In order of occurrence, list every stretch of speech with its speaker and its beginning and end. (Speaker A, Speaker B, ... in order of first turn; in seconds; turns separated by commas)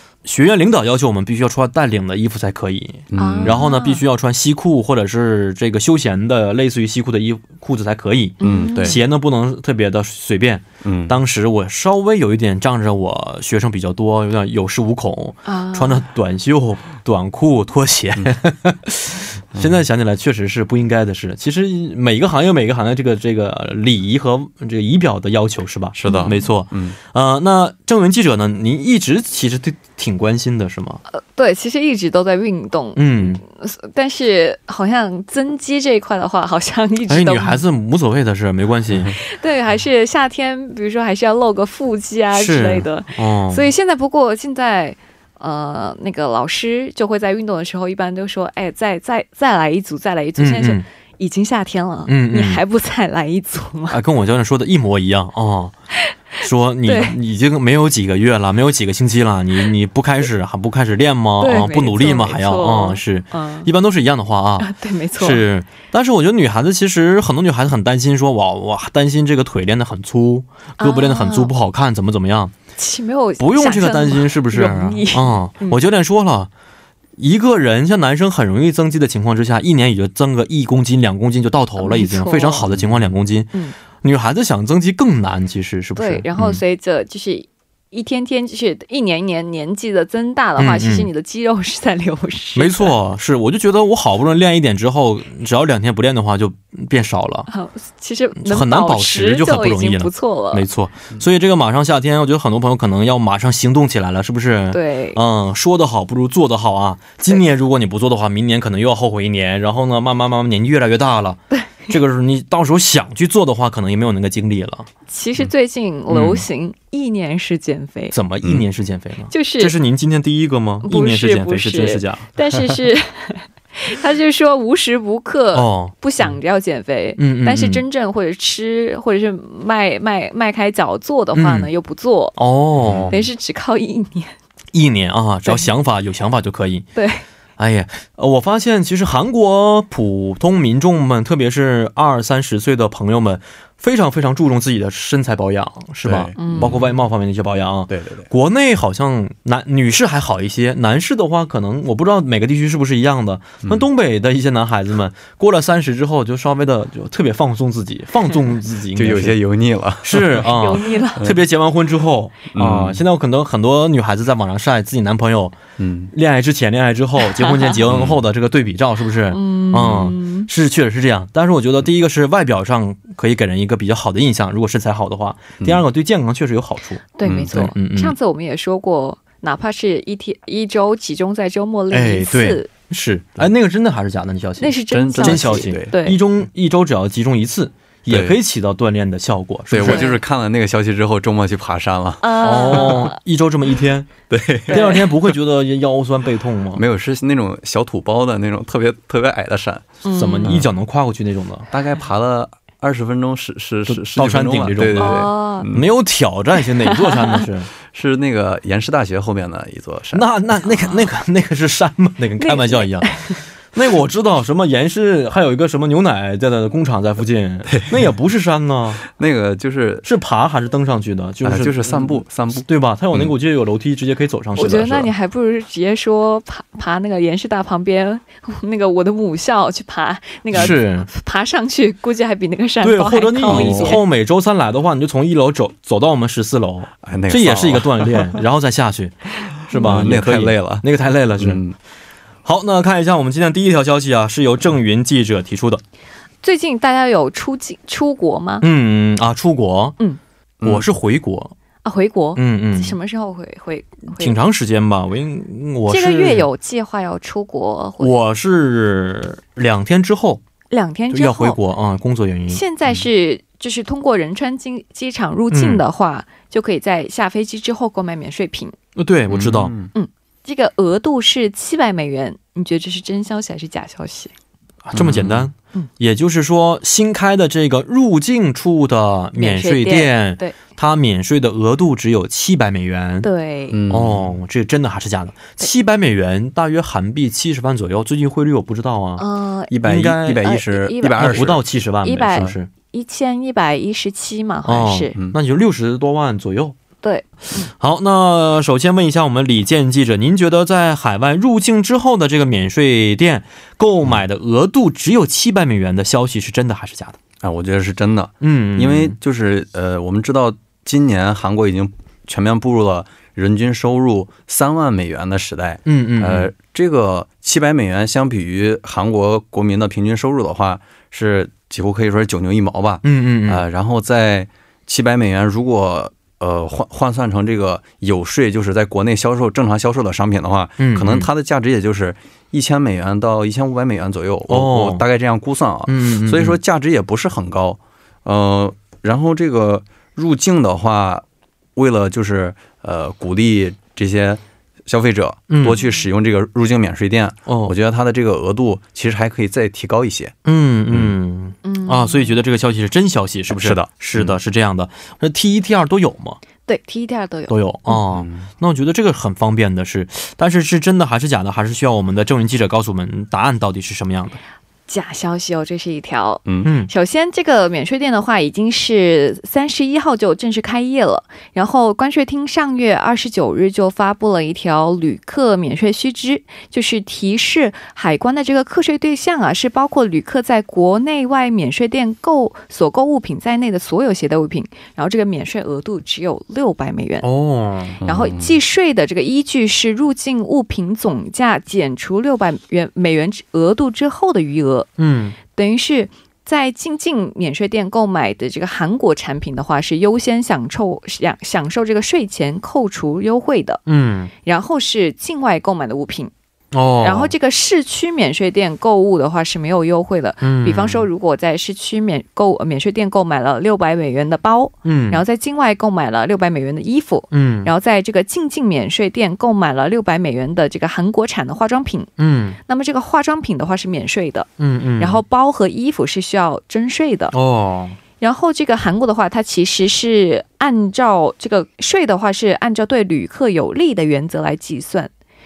Speaker A: 0.2-31.0, Speaker B: 3.1-3.6, Speaker C: 3.2-4.0, Speaker C: 8.4-9.0, Speaker B: 8.4-9.0, Speaker B: 10.8-11.2, Speaker C: 15.5-16.0, Speaker B: 26.0-26.9, Speaker C: 26.1-26.5, Speaker C: 31.1-37.6, Speaker A: 33.0-33.4, Speaker A: 37.1-39.1, Speaker C: 39.2-54.0, Speaker A: 42.3-43.7, Speaker A: 50.4-50.8, Speaker A: 52.1-52.6, Speaker A: 53.9-55.7, Speaker A: 56.4-72.5, Speaker C: 56.9-57.2, Speaker C: 61.4-63.7, Speaker C: 64.6-65.5, Speaker C: 70.8-71.5, Speaker C: 72.8-75.8, Speaker A: 73.4-76.5, Speaker A: 77.2-86.6, Speaker C: 81.8-82.7, Speaker B: 82.7-83.1, Speaker C: 86.0-92.9, Speaker A: 90.6-91.1, Speaker A: 92.6-97.5, Speaker C: 97.5-100.7, Speaker A: 98.4-114.9, Speaker C: 104.7-105.2, Speaker C: 115.1-118.2, Speaker A: 116.1-116.5, Speaker A: 118.1-122.3, Speaker C: 119.3-119.7, Speaker C: 120.8-132.4, Speaker A: 125.5-125.9, Speaker A: 127.2-127.8, Speaker A: 131.3-131.7, Speaker A: 132.4-133.2, Speaker B: 132.8-133.2, Speaker C: 133.1-134.3, Speaker A: 134.7-136.9, Speaker C: 136.9-137.2, Speaker A: 137.6-159.4, Speaker B: 146.0-146.8, Speaker C: 146.4-146.8, Speaker B: 147.9-148.3, Speaker B: 158.9-160.6, Speaker A: 160.0-165.6, Speaker C: 160.5-161.3, Speaker B: 162.5-163.0, Speaker B: 165.8-166.1, Speaker A: 166.1-178.2, Speaker C: 167.3-167.8, Speaker B: 167.9-168.2, Speaker C: 169.3-170.5, Speaker C: 177.2-182.7, Speaker B: 177.2-177.5, Speaker A: 181.9-190.1, Speaker C: 184.6-186.2, Speaker B: 184.9-186.0, Speaker B: 188.1-188.4, Speaker B: 189.7-192.9, Speaker C: 189.8-190.2, Speaker C: 192.2-193.2, Speaker A: 192.4-194.1, Speaker B: 194.3-195.3, Speaker A: 194.7-196.8, Speaker C: 194.7-195.1, Speaker B: 196.7-200.7, Speaker C: 200.0-200.6, Speaker A: 200.2-201.7, Speaker B: 201.7-205.9, Speaker A: 203.9-207.7, Speaker C: 205.0-205.7, Speaker C: 206.8-207.4, Speaker B: 207.9-210.3, Speaker A: 210.1-219.1, Speaker C: 212.4-213.4, Speaker B: 219.1-220.1, Speaker A: 220.1-225.1, Speaker B: 221.4-223.3, Speaker C: 224.6-234.0, Speaker A: 230.5-231.1, Speaker A: 232.8-241.6, Speaker B: 233.5-234.0, Speaker B: 237.0-238.4, Speaker B: 239.7-240.9, Speaker C: 239.7-240.0, Speaker B: 241.4-241.8, Speaker A: 242.4-245.8, Speaker C: 246.4-248.7, Speaker A: 248.6-250.0, Speaker B: 250.6-250.9, Speaker A: 250.6-251.5, Speaker C: 251.8-254.3, Speaker A: 252.4-253.0, Speaker A: 254.2-256.5, Speaker C: 255.9-258.1, Speaker A: 258.0-260.4, Speaker C: 260.7-261.6, Speaker A: 261.1-262.6, Speaker C: 262.5-268.8, Speaker A: 265.5-265.8, Speaker A: 269.0-269.7, Speaker B: 269.3-269.9, Speaker C: 269.9-274.3, Speaker A: 274.9-283.3, Speaker B: 274.9-275.5, Speaker C: 279.4-280.6, Speaker C: 283.2-283.8, Speaker B: 283.7-284.4, Speaker A: 283.9-289.2, Speaker C: 289.2-289.8, Speaker B: 289.7-291.6, Speaker A: 289.8-290.6, Speaker C: 290.4-291.5, Speaker A: 291.1-292.7, Speaker C: 292.0-295.1, Speaker A: 294.7-296.8, Speaker C: 297.0-297.7, Speaker A: 297.8-307.2, Speaker B: 307.4-341.2, Speaker A: 308.4-309.2, Speaker A: 315.9-316.5, Speaker A: 323.0-323.6, Speaker A: 330.8-331.3, Speaker A: 334.5-335.0, Speaker A: 335.9-336.6, Speaker B: 341.8-350.4, Speaker A: 345.5-345.8, Speaker A: 347.5-347.8, Speaker A: 350.5-356.4, Speaker C: 351.6-352.4, Speaker B: 353.6-354.4, Speaker C: 356.7-358.0, Speaker A: 357.5-364.4, Speaker B: 358.1-358.5, Speaker C: 364.9-387.3, Speaker A: 366.6-366.9, Speaker A: 387.2-388.0, Speaker B: 388.0-388.6, Speaker C: 388.0-394.9, Speaker A: 395.0-395.4, Speaker C: 395.5-403.8, Speaker A: 403.9-404.3, Speaker C: 404.4-406.3, Speaker A: 406.7-407.3, Speaker C: 407.0-422.1, Speaker A: 410.4-411.1, Speaker A: 414.9-415.2, Speaker A: 417.3-417.7, Speaker A: 422.2-422.6, Speaker C: 422.7-427.4, Speaker A: 424.6-425.2, Speaker A: 427.3-428.0, Speaker C: 428.2-435.1